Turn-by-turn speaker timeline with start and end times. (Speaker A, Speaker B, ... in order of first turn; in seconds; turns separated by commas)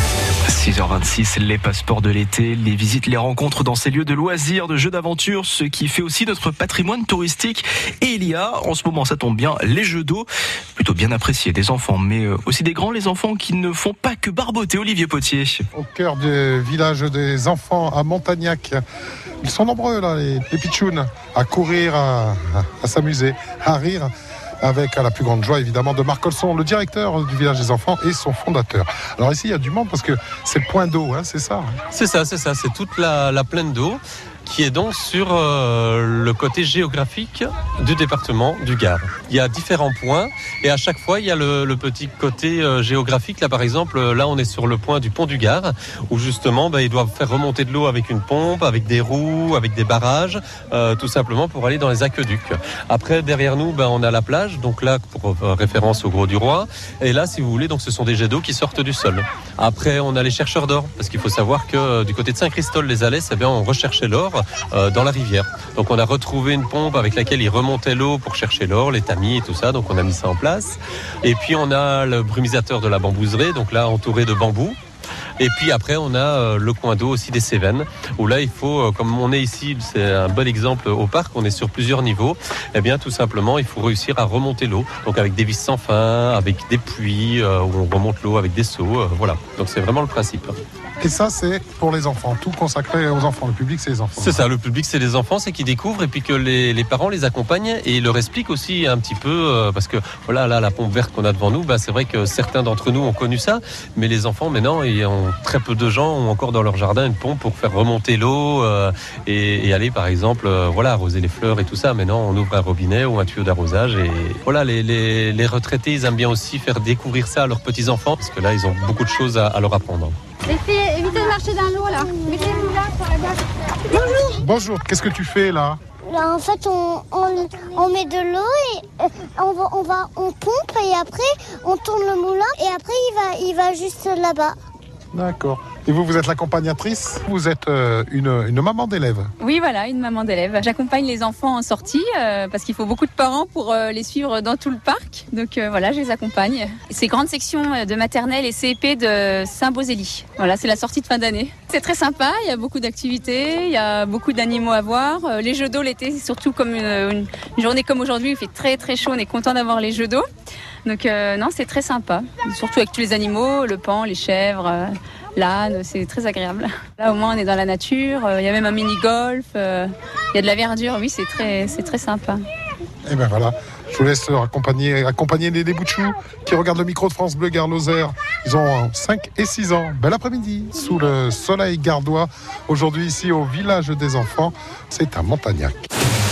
Speaker A: 0.5-15.6, Speaker B: 15.7-18.8, Speaker B: 19.4-24.1, Speaker B: 24.6-31.7, Speaker C: 31.9-74.8, Speaker C: 75.4-90.6, Speaker B: 91.0-94.4, Speaker C: 94.2-120.2, Speaker D: 120.5-123.1, Speaker E: 122.1-122.7, Speaker B: 124.3-125.8, Speaker E: 126.1-134.6, Speaker B: 135.1-139.3, Speaker F: 139.4-160.2, Speaker F: 160.8-172.4, Speaker B: 173.1-185.8